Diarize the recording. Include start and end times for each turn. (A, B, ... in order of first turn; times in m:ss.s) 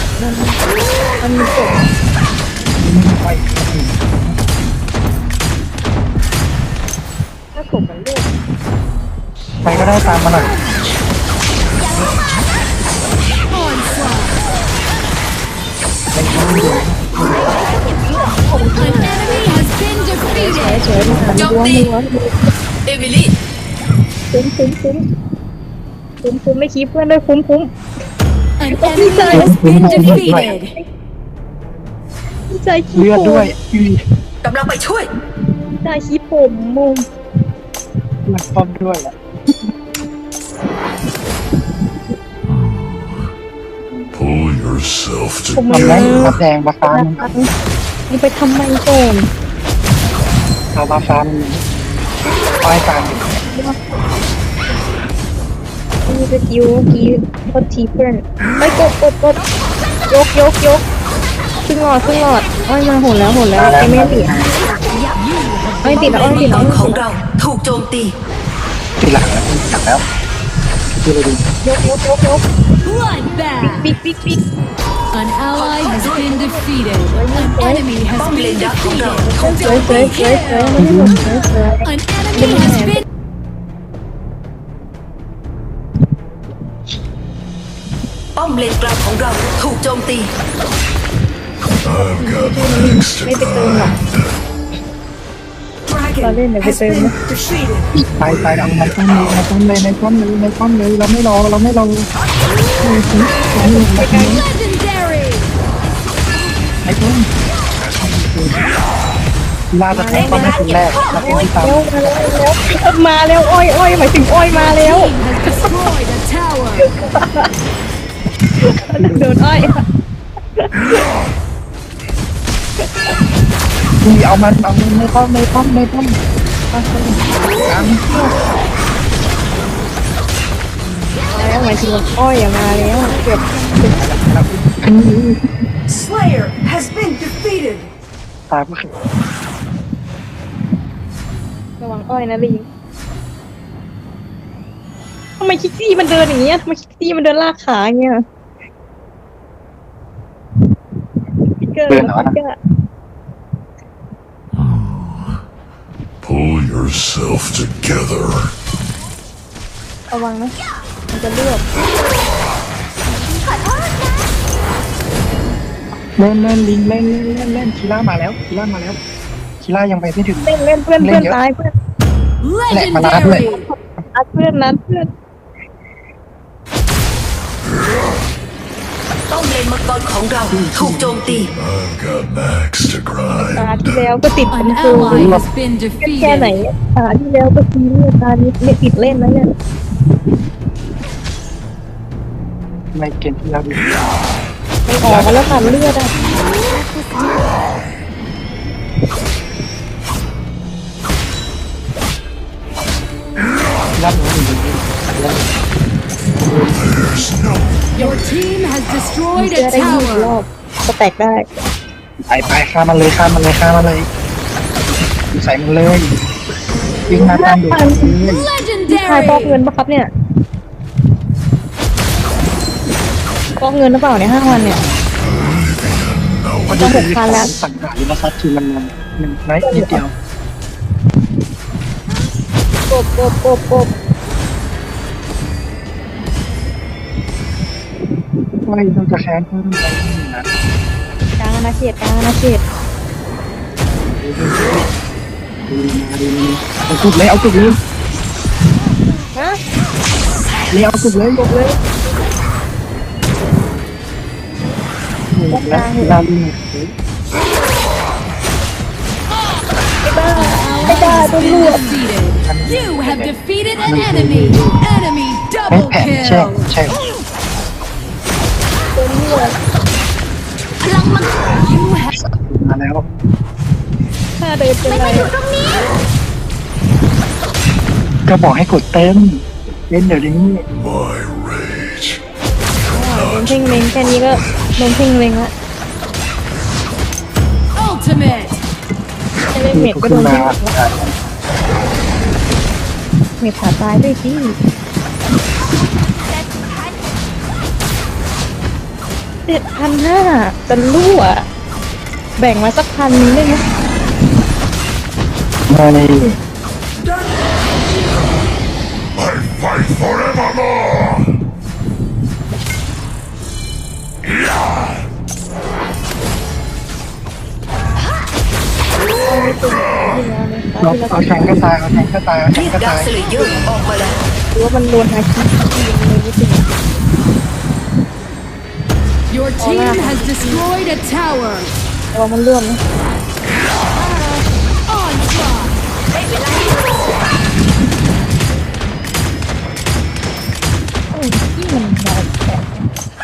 0:00.2-0:00.6 A
0:01.2-0:01.8 A
0:02.8-0:04.4 B
0:07.5-0:08.3 A
0:09.6-0:10.5 B
0:13.5-0:14.3 C
0:16.1-0:17.5 B
0:18.4-0:19.0 A
0:18.8-0:20.8 C
0:20.3-0:22.3 A
0:21.0-0:21.4 B
0:21.4-0:21.8 D
0:22.9-0:23.3 D
0:24.3-0:25.0 A
0:26.2-0:27.7 A
0:28.6-0:30.7 C
0:28.8-0:30.6 A
0:29.3-0:30.5 B
0:32.5-0:33.5 A
0:32.9-0:34.0 B
0:34.4-0:35.1 D
0:35.8-0:37.0 A
0:38.3-0:39.1 B
0:42.5-0:43.3 E
0:44.1-0:46.4 E
0:45.6-0:46.4 A
0:45.7-0:47.3 B
0:46.9-0:47.5 A
0:48.1-0:49.3 A
0:50.8-0:51.6 B
0:52.6-0:53.4 B
0:56.1-0:59.4 A
1:00.1-1:00.8 A
1:01.7-1:04.3 A
1:03.5-1:04.6 B
1:05.2-1:06.6 C
1:05.8-1:07.0 A
1:06.1-1:08.2 D
1:09.0-1:10.0 B
1:11.0-1:11.4 B
1:11.6-1:12.4 A
1:12.8-1:13.8 C
1:13.6-1:14.4 A
1:15.1-1:19.8 C
1:15.5-1:16.3 D
1:16.4-1:17.9 A
1:18.2-1:19.7 D
1:19.4-1:23.0 A
1:20.8-1:21.4 B
1:21.9-1:22.9 C
1:28.4-1:30.3 D
1:31.8-1:34.3 E
1:32.1-1:34.0 A
1:36.2-1:37.1 A
1:37.2-1:37.6 E
1:37.9-1:42.1 B
1:38.4-1:38.8 E
1:42.8-1:44.4 B
1:43.6-1:44.4 A
1:44.4-1:45.4 C
1:46.9-1:48.7 B
1:49.7-1:52.2 B
1:49.9-1:55.1 A
1:54.7-1:56.9 C
1:57.0-1:57.5 A
1:58.6-1:59.8 A
1:59.0-1:59.4 B
2:04.0-2:06.2 B
2:06.7-2:08.3 B
2:11.3-2:14.0 A
2:13.8-2:14.8 B
2:18.5-2:18.9 B
2:21.8-2:22.6 A
2:25.4-2:28.2 A
2:31.7-2:32.6 A
2:31.9-2:32.3 B
2:34.6-2:35.4 E
2:36.2-2:38.5 E
2:40.1-2:40.5 A
2:41.1-2:41.6 A
2:46.2-2:49.0 B
2:49.6-2:50.5 B
2:50.4-2:51.7 A
2:51.0-2:51.4 B
2:52.4-2:53.5 C
2:52.7-2:53.6 B
2:53.5-2:55.1 A
2:59.3-3:01.5 D
3:00.5-3:01.5 B
3:01.6-3:03.9 E
3:03.5-3:05.3 A
3:04.6-3:06.5 C
3:05.0-3:05.4 B
3:06.0-3:09.5 A
3:12.9-3:14.0 B
3:14.9-3:16.1 A
3:15.0-3:16.3 B
3:24.0-3:25.6 B
3:26.4-3:27.5 B
3:27.1-3:27.6 E
3:28.0-3:30.3 C
3:29.4-3:31.5 A
3:32.2-3:34.1 B
3:35.3-3:36.1 B
3:37.1-3:38.5 B
3:37.1-3:38.2 A
3:38.3-3:39.4 C
3:38.9-3:40.1 A
3:43.6-3:44.8 A
3:45.3-3:46.9 E
3:46.7-3:50.1 B
3:46.7-3:47.5 A
3:49.6-3:50.0 A
3:52.9-3:53.9 A
3:58.6-4:00.5 B
4:01.4-4:02.6 A
4:04.1-4:04.9 B
4:05.7-4:07.8 B
4:09.3-4:09.6 A
4:10.7-4:11.5 B
4:11.4-4:11.7 A
4:15.3-4:16.9 B
4:15.5-4:16.2 A
4:20.0-4:21.9 A
4:20.5-4:26.6 C
4:22.4-4:24.8 B
4:25.7-4:27.1 B
4:28.9-4:29.5 A
4:32.1-4:33.0 B
4:34.4-4:35.3 A
4:38.3-4:40.6 B
4:40.7-4:42.2 E
4:42.9-4:45.5 A
4:42.9-4:44.3 E
4:47.8-4:48.6 C
4:49.5-4:50.7 A
4:49.7-4:51.1 B
4:53.4-4:54.6 A
4:59.4-5:01.4 A
5:02.4-5:03.6 A
5:05.7-5:06.4 B
5:19.2-5:21.6 A
5:20.8-5:23.1 B
5:22.6-5:24.2 D
5:24.5-5:26.7 A
5:29.3-5:31.7 C
5:29.6-5:30.6 A
5:32.1-5:32.8 A
5:35.0-5:35.7 C
5:41.1-5:42.9 A